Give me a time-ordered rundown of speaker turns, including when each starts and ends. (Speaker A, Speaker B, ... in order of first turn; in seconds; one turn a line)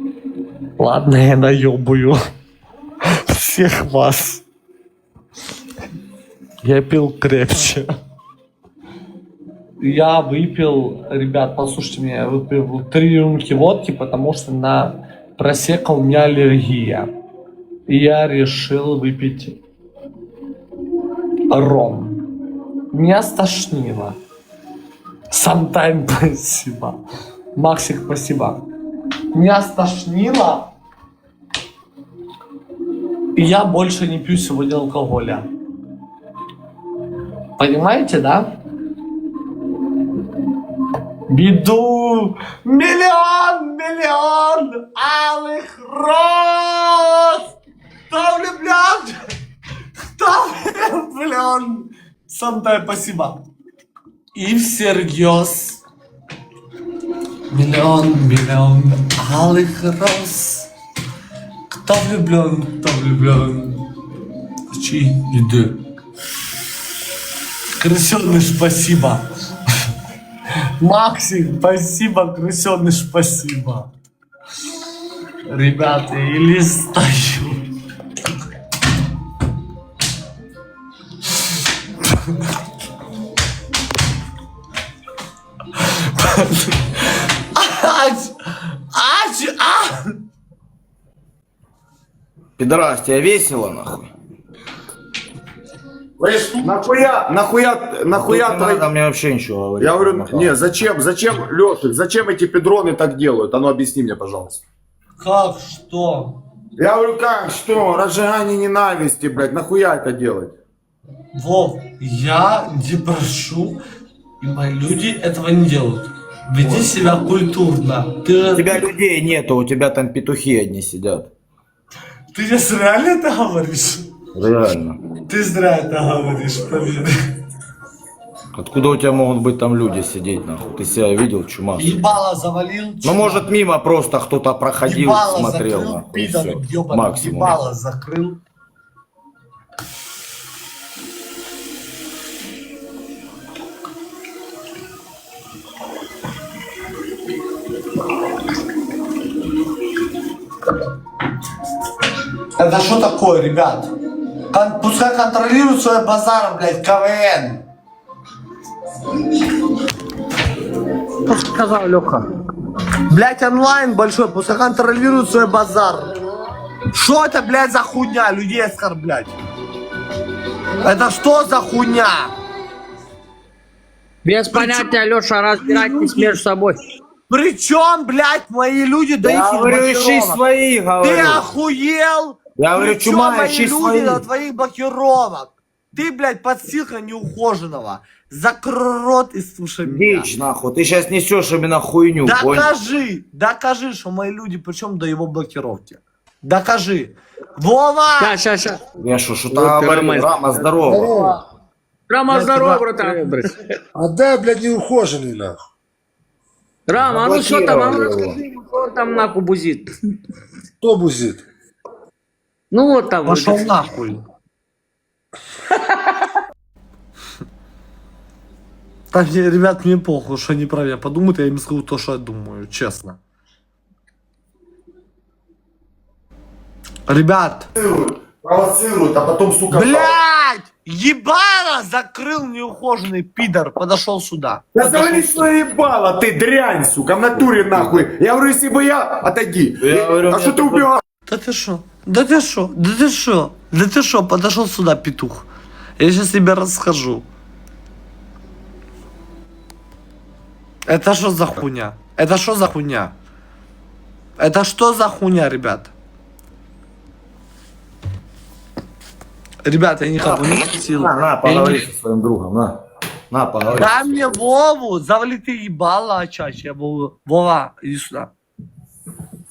Speaker A: 0.8-2.2
Speaker A: 3.1-4.4
Speaker A: 6.6-7.9
Speaker A: 9.8-17.1
Speaker A: 17.9-19.6
Speaker A: 21.5-22.2
Speaker A: 22.9-24.2
Speaker A: 25.3-27.0
Speaker A: 27.6-28.6
Speaker A: 29.3-30.7
Speaker A: 33.4-35.5
Speaker A: 37.6-38.5
Speaker A: 41.3-47.5
Speaker A: 48.1-49.3
Speaker A: 50.2-53.4
Speaker A: 54.4-55.8
Speaker A: 57.5-60.7
Speaker A: 61.7-63.9
Speaker A: 64.7-65.8
Speaker A: 67.8-69.2
Speaker A: 70.8-73.9
Speaker A: 75.5-77.7
Speaker A: 85.9-86.9
Speaker A: 87.5-88.3
Speaker A: 88.9-90.1
Speaker B: 92.6-94.1
Speaker C: 96.2-98.9
Speaker B: 98.1-100.6
Speaker C: 99.8-104.6
Speaker A: 105.2-106.4
Speaker C: 106.8-110.6
Speaker A: 111.3-113.8
Speaker A: 114.4-118.8
Speaker B: 118.5-121.3
Speaker A: 122.3-124.1
Speaker B: 124.3-125.0
Speaker A: 125.3-127.2
Speaker B: 128.5-132.0
Speaker A: 131.8-133.5
Speaker B: 133.0-137.6
Speaker A: 134.8-138.4
Speaker A: 152.6-153.9
Speaker A: 154.5-157.6
Speaker A: 163.1-166.1
Speaker A: 166.9-169.4
Speaker A: 170.8-172.3
Speaker D: 174.2-176.8
Speaker A: 174.5-174.9
Speaker A: 177.3-180.4
Speaker B: 179.2-181.5
Speaker A: 181.0-190.3
Speaker B: 182.6-184.2
Speaker B: 189.9-192.7
Speaker A: 192.2-198.4
Speaker D: 198.2-198.8
Speaker B: 199.0-201.1
Speaker D: 199.5-200.7
Speaker E: 200.9-201.4
Speaker A: 200.9-201.4
Speaker D: 202.1-203.6
Speaker A: 202.3-203.2
Speaker E: 203.9-205.6
Speaker D: 206.9-209.9
Speaker B: 207.0-208.4
Speaker E: 210.8-211.4
Speaker D: 212.7-213.7
Speaker A: 213.2-214.2
Speaker A: 219.1-223.2
Speaker A: 227.1-227.7
Speaker C: 227.8-230.2
Speaker A: 229.7-235.5
Speaker C: 234.7-241.0
Speaker B: 239.9-240.9
Speaker A: 241.3-245.5
Speaker A: 246.0-247.3
Speaker A: 250.9-253.1
Speaker A: 254.4-255.9
Speaker A: 259.7-261.9
Speaker B: 260.2-262.8
Speaker B: 263.3-264.3
Speaker A: 263.7-268.3